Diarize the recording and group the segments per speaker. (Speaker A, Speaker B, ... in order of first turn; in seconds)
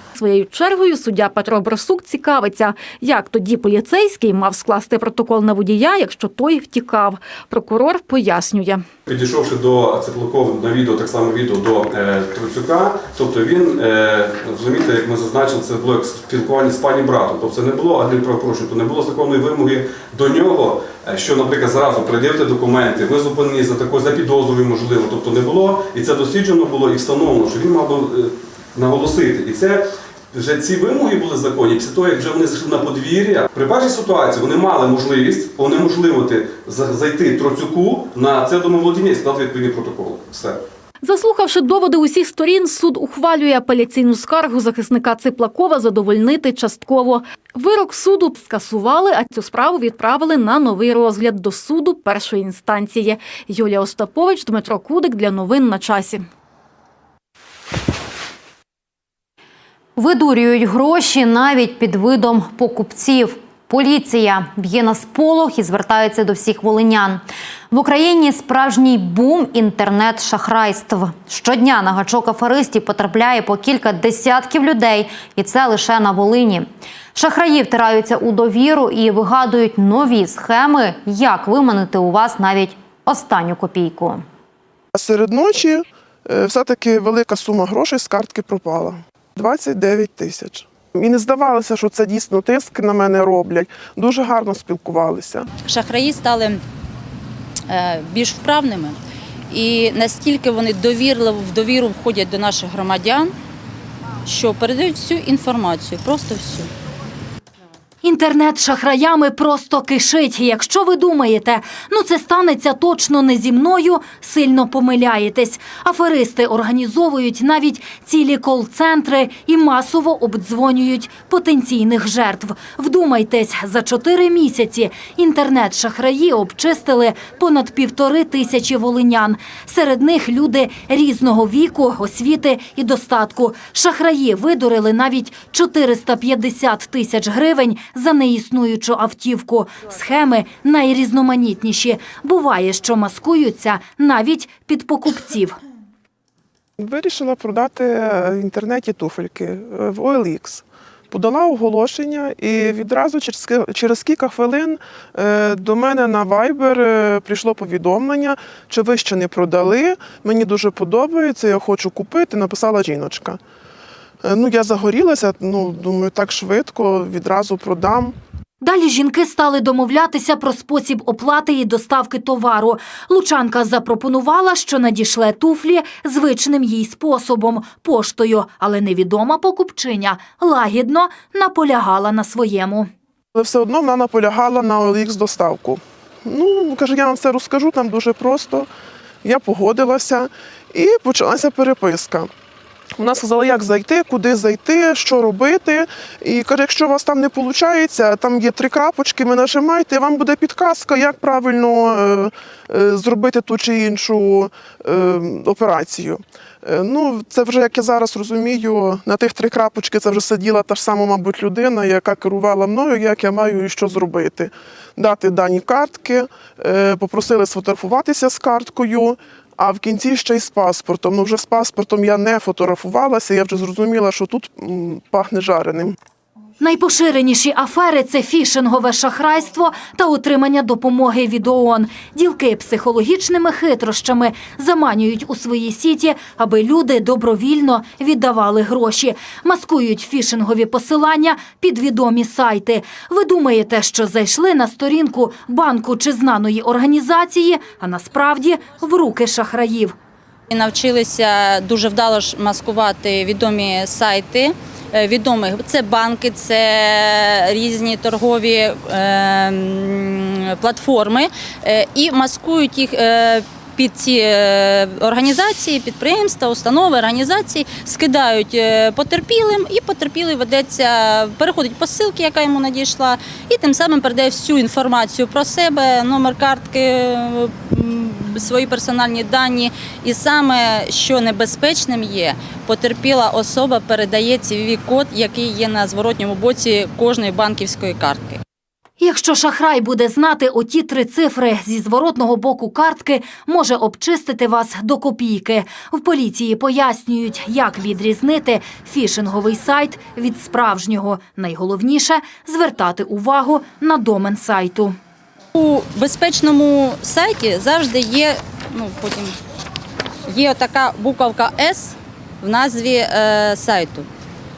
Speaker A: 0.2-8.8, 41.0-56.2
Speaker B: 9.1-40.6
Speaker C: 60.0-84.2
Speaker D: 84.9-95.5, 146.8-163.4, 164.2-168.1, 183.4-188.7, 189.2-192.3, 193.0-225.9
Speaker E: 95.7-96.6, 97.7-99.0, 99.5-103.3, 104.2-106.7, 250.5-288.4, 305.6-309.4, 310.3-314.1
Speaker F: 108.0-145.6, 168.6-182.9, 226.6-250.0, 289.0-305.0